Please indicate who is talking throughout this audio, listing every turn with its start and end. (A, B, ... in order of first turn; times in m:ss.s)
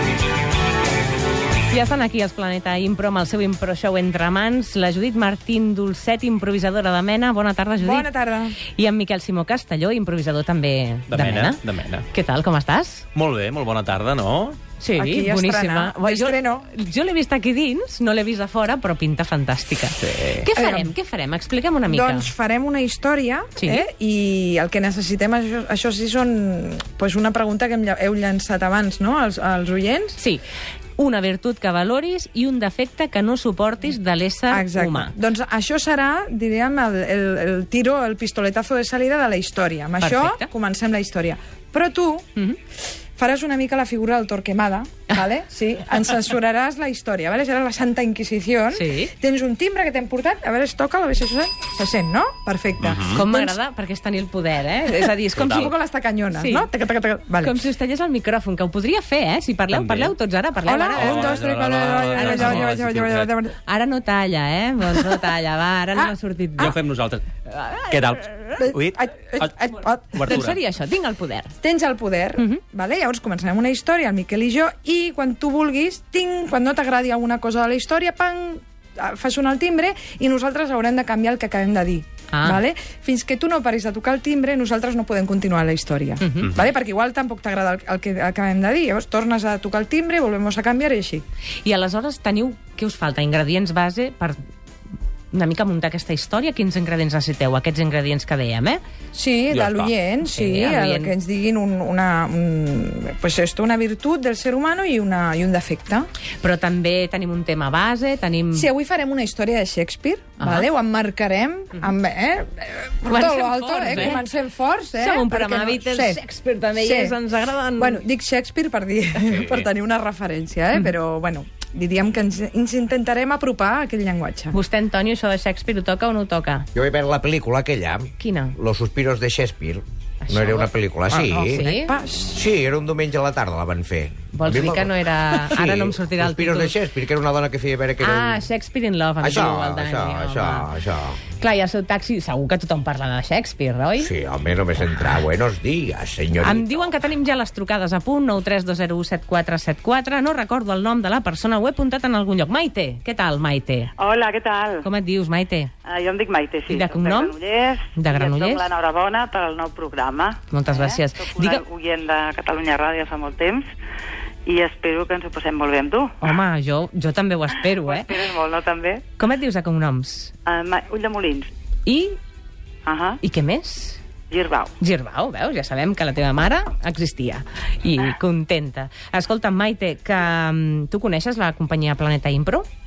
0:01.7-0:08.1 A
0:07.8-0:08.6 B
0:08.7-0:11.6 A
0:11.1-0:12.1 C
0:12.1-0:13.0 A
0:13.1-0:14.6 C
0:14.8-0:22.3 A
0:15.0-0:16.7 B
0:20.6-0:20.9 B
0:21.9-0:30.2 B
0:23.6-0:23.8 A
0:30.2-0:30.4 A
0:31.0-0:35.1 A
0:34.5-0:42.3 B
0:40.0-0:40.5 A
0:43.2-0:53.6 B
0:48.7-0:49.1 A
0:52.8-0:53.2 C
0:53.1-0:55.8 A
0:55.4-0:57.6 B
0:55.4-0:55.7 C
0:56.3-0:56.7 A
0:57.4-1:01.3 A
0:59.7-1:00.2 C
1:00.7-1:03.6 B
1:00.9-1:03.3 C
1:02.2-1:02.7 A
1:03.7-1:06.8 A
1:06.0-1:06.8 B
1:06.6-1:07.3 C
1:07.5-1:08.6 A
1:07.9-1:10.6 C
1:08.6-1:10.1 B
1:10.2-1:11.5 A
1:11.6-1:31.2 B
1:22.3-1:22.6 A
1:26.2-1:26.5 A
1:31.6-1:34.4 A
1:35.3-1:38.8 A
1:39.1-1:46.1 B
1:39.5-1:39.9 C
1:40.2-1:41.1 A
1:46.4-1:48.7 A
1:48.5-1:56.2 B
1:50.4-1:50.7 A
1:53.1-1:54.2 A
1:55.0-1:58.0 A
1:56.8-1:57.2 B
1:57.8-2:04.6 B
1:59.3-1:59.7 D
2:04.5-2:06.7 A
2:06.7-2:11.6 D
2:08.2-2:08.6 A
2:10.2-2:10.7 A
2:11.1-2:12.4 B
2:11.4-2:11.9 A
2:12.3-2:18.4 D
2:14.3-2:16.7 A
2:18.0-2:20.7 A
2:19.2-2:21.2 D
2:21.4-2:24.1 A
2:24.0-2:26.9 D
2:26.4-2:33.9 A
2:34.0-2:34.8 E
2:34.8-2:35.7 A
2:35.9-2:43.7 E
2:36.7-2:37.4 A
2:38.0-2:38.6 A
2:40.5-2:41.6 A
2:44.4-2:46.3 E
2:46.2-2:48.1 A
2:47.8-2:49.0 E
2:49.2-2:50.3 A
2:50.5-2:51.5 E
2:51.8-2:52.2 A
2:52.8-2:53.2 E
2:53.2-2:54.0 A
2:54.3-2:54.7 E
2:54.8-3:02.7 A